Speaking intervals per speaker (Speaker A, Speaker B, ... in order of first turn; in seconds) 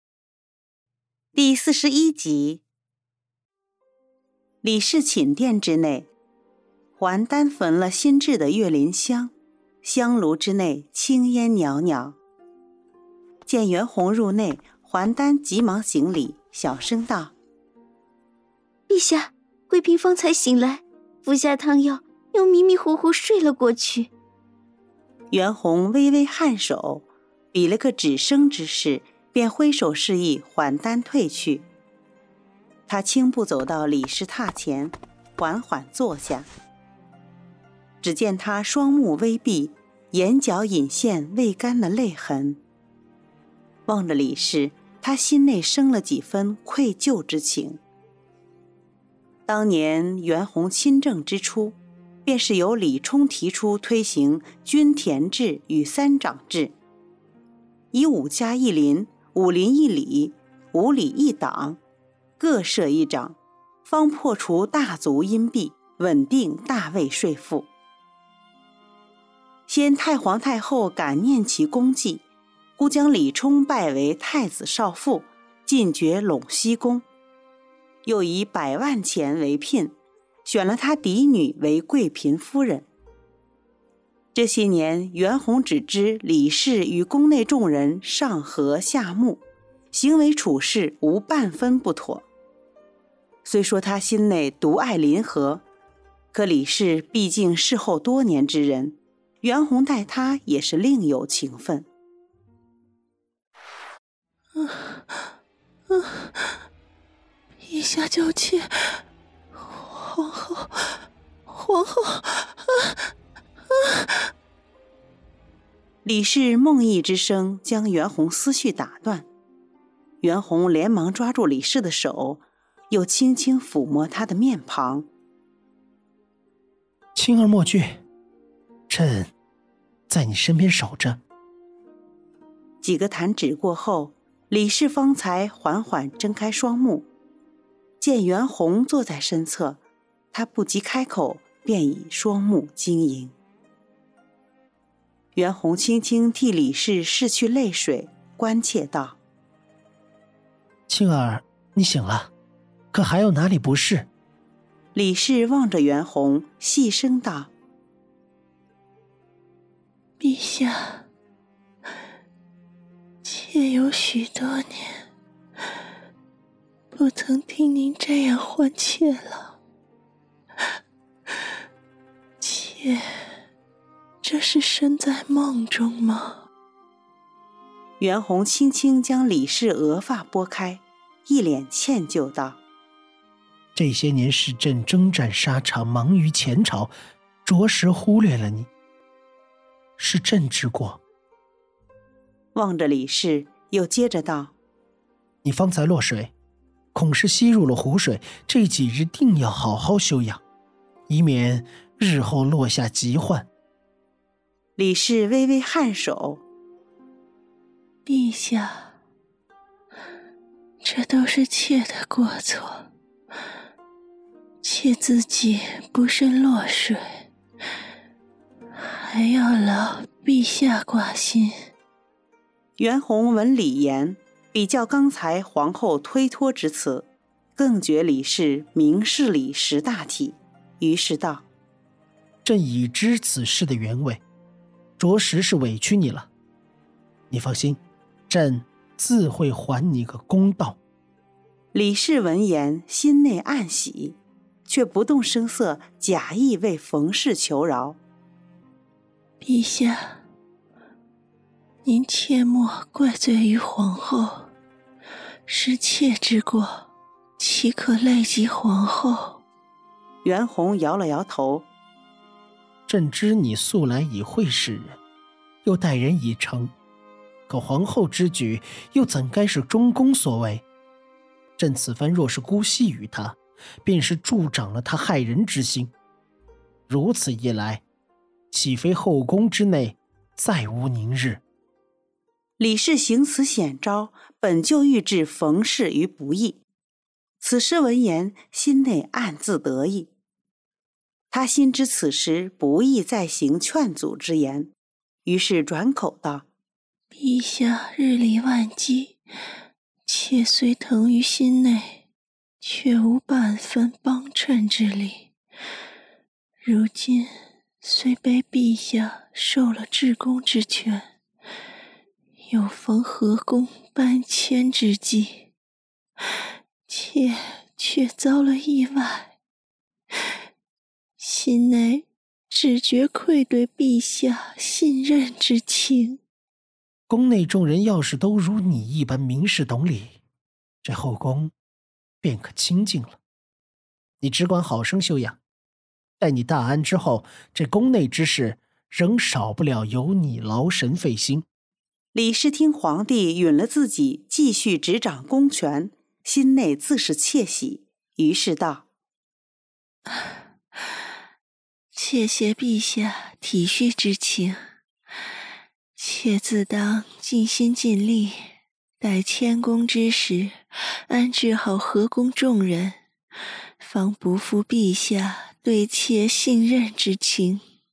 Speaker A: 1.4-2.6, 4.6-6.1, 7.0-9.3, 9.8-12.2, 13.5-17.3, 25.3-31.6, 32.9-36.5, 38.0-42.6, 43.9-47.8, 49.5-56.7, 57.9-61.8, 62.4-67.7, 69.7-72.2, 72.8-77.0, 78.0-79.9, 80.5-82.9, 84.3-89.4, 89.9-92.2, 93.5-95.6, 96.3-101.9, 116.0-119.3, 120.2-125.1, 132.8-137.1, 138.0-139.8, 140.3-143.3, 145.3-149.2, 154.9-157.5, 178.0-182.6, 192.6-194.5, 204.8-206.4, 222.8-231.4, 241.7-248.0, 260.2-261.7, 282.6-286.6, 287.4-290.1, 291.3-294.7, 295.2-296.4, 342.1-348.9
Speaker B: 18.9-24.1
Speaker C: 104.6-105.3, 105.9-106.6, 107.7-109.0, 109.6-113.1, 113.8-114.3, 160.2-161.1, 163.2-165.1, 166.9-169.6, 172.4-173.3, 174.2-176.4, 208.1-208.9, 210.8-212.9, 214.6-217.2, 218.8-221.7, 249.4-250.2, 251.8-254.5, 255.5-256.9, 257.4-259.4, 297.1-299.2, 300.1-302.0, 302.6-305.3, 306.6-307.3, 307.8-311.1, 312.5-315.5, 316.9-319.3, 321.2-326.2, 352.0-354.6, 356.0-358.4, 359.0-360.6, 361.1-363.0, 363.8-367.6
Speaker D: 127.2-128.0, 128.9-129.3, 130.1-131.2, 150.9-152.3, 152.9-154.1, 183.8-186.9, 187.4-188.7, 190.0-191.0, 195.4-196.3, 196.9-200.4, 201.1-203.5, 232.4-234.2, 235.0-236.3, 237.3-240.8, 262.9-265.0, 265.6-266.7, 267.5-270.6, 271.6-275.9, 276.9-277.8, 278.5-281.4, 327.1-330.2, 330.8-331.5, 332.2-333.2, 334.2-335.4, 336.2-341.5